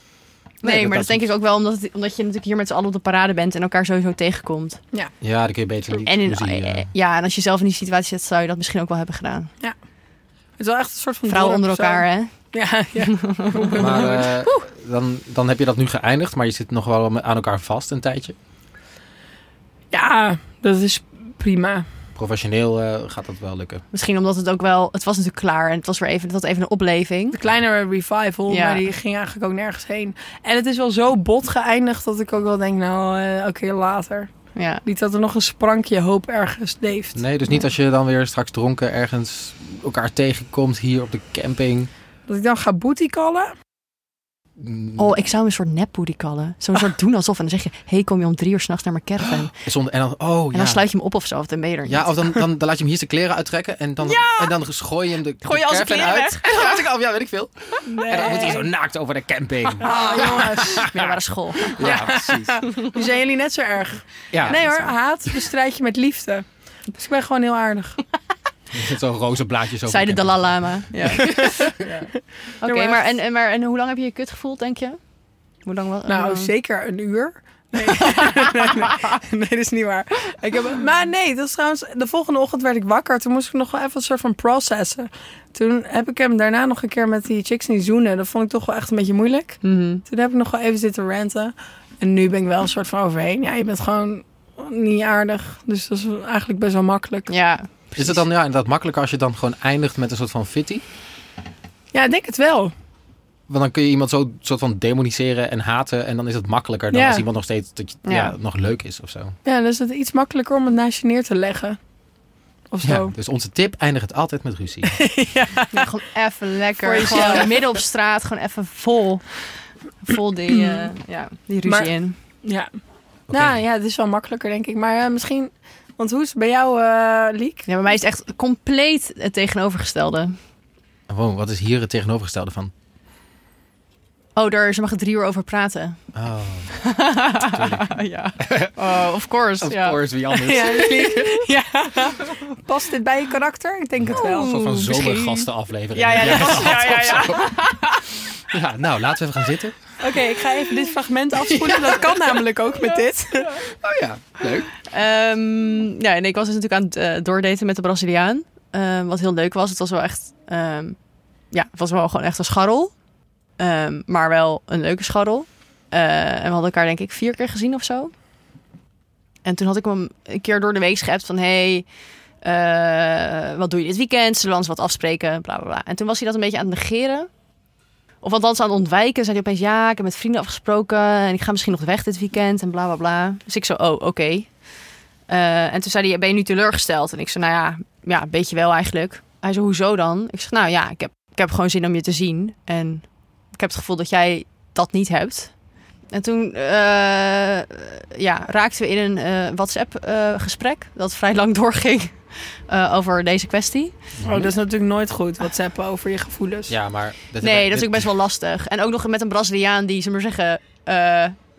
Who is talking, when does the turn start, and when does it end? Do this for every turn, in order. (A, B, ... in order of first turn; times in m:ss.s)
0:00.6-0:04.8 A
0:00.6-0:01.3 B
0:05.2-0:06.9 B
0:05.9-0:09.5 A
0:10.6-0:14.3 C
0:11.3-0:12.3 A
0:13.0-0:14.6 A
0:13.8-0:18.4 B
0:19.9-0:21.8 C
0:22.2-0:23.8 B
0:23.9-0:27.4 A
0:27.3-0:34.3 C
0:28.5-0:28.8 A
0:34.6-0:34.8 A
0:34.8-0:37.2 C
0:37.2-0:41.9 B
0:42.3-0:43.5 C
0:44.6-0:45.1 B
0:45.0-0:49.5 A
0:49.4-0:50.8 B
0:50.5-0:52.1 A
0:51.9-1:01.1 B
0:54.0-0:54.5 A
0:55.4-0:56.8 A
0:57.8-0:58.7 C
0:59.8-1:00.9 C
0:59.8-1:02.1 A
1:01.7-1:02.6 B
1:01.7-1:08.0 C
1:04.3-1:04.9 B
1:08.7-1:10.9 B
1:09.9-1:12.1 A
1:11.2-1:11.9 C
1:12.6-1:15.0 A
1:12.6-1:13.1 C
1:15.6-1:16.5 A
1:16.1-1:37.3 C
1:17.9-1:19.1 A
1:29.6-1:30.0 A
1:37.3-1:38.2 A
1:38.0-1:40.8 B
1:41.9-1:42.7 C
1:43.5-1:49.4 B
1:46.9-1:47.2 A
1:48.0-1:48.4 A
1:49.4-1:51.8 C
1:52.7-1:53.1 C
1:52.8-1:55.0 B
1:54.9-1:55.9 C
1:55.7-1:59.5 A
1:56.8-1:57.7 C
2:00.0-2:02.2 A
2:00.5-2:00.9 C
2:01.6-2:02.7 C
2:03.3-2:03.6 B
2:03.3-2:07.6 C
2:07.7-2:10.4 A
2:11.1-2:12.7 B
2:14.4-2:16.0 A
2:16.1-2:16.8 B
2:16.7-2:21.5 A
2:17.4-2:18.9 B
2:19.6-2:21.5 B
2:20.4-2:25.2 C
2:22.1-2:22.4 A
2:24.0-2:27.6 B
2:24.1-2:25.3 A
2:25.9-2:28.0 A
2:26.2-2:26.9 C
2:28.5-2:29.8 B
2:30.0-2:33.6 C
2:31.5-2:32.3 B
2:33.7-2:34.7 B
2:34.9-2:41.0 A
2:41.5-2:42.9 A
2:43.6-2:48.1 A
2:49.4-2:51.9 A
2:52.4-2:57.3 A
2:58.2-3:04.5 A
3:05.3-3:15.5 A
3:16.1-3:23.9 A
3:24.2-3:24.5 B
3:24.2-3:26.7 C
3:26.7-3:28.1 B
3:27.4-3:31.4 A